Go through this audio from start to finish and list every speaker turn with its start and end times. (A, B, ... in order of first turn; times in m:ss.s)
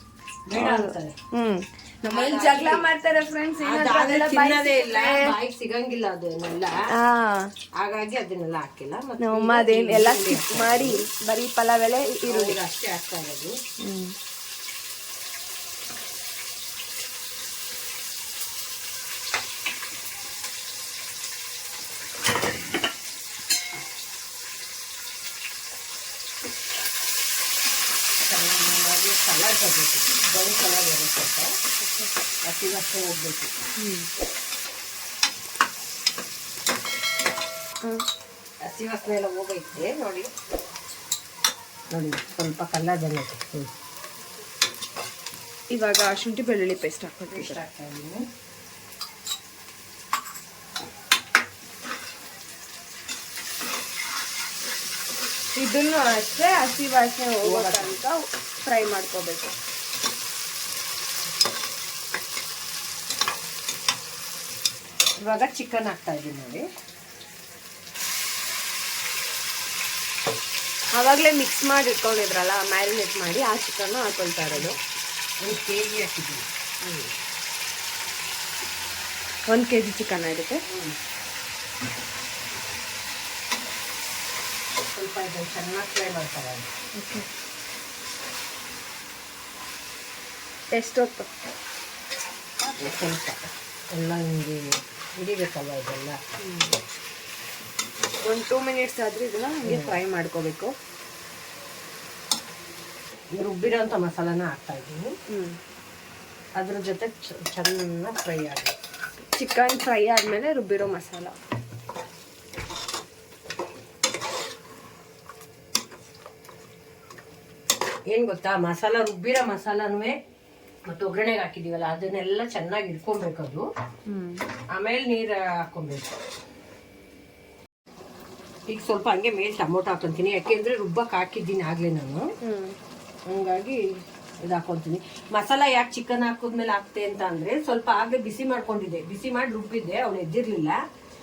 0:00.5-0:01.2 A
0:00.5-0:05.3 B
0:02.1-0:02.9 A
0:03.6-0:06.9 A
0:06.9-0:07.5 B
0:07.7-0:11.0 A
0:09.2-0:12.6 B
0:12.3-0:13.6 A
0:13.8-0:14.1 B
0:28.2-0:31.6 A
0:31.8-0:32.1 B
0:32.4-0:33.5 A
0:33.8-0:34.1 B
0:38.6-0:40.3 A
0:41.9-0:43.7 A
0:45.7-0:47.6 B
0:47.3-0:48.3 A
0:55.5-0:59.5 B
0:57.4-0:58.0 A
1:05.2-1:06.6 A
1:10.9-1:14.8 B
1:15.4-1:16.5 A
1:16.8-1:17.1 B
1:19.5-1:20.6 B
1:20.6-1:21.0 A
1:24.8-1:26.7 A
1:26.9-1:27.3 B
1:30.7-1:31.3 B
1:32.6-1:36.2 A
1:36.4-1:36.8 B
1:38.2-1:40.7 B
1:39.6-1:40.0 A
1:43.3-1:45.2 A
1:45.3-1:45.6 B
1:46.6-1:48.7 A
1:49.3-1:51.3 B
1:58.1-2:00.2 A
2:00.9-2:03.7 A
2:04.1-2:04.4 B
2:04.7-2:06.2 A
2:08.7-2:12.3 A
2:12.4-2:12.7 B
2:13.3-2:20.8 A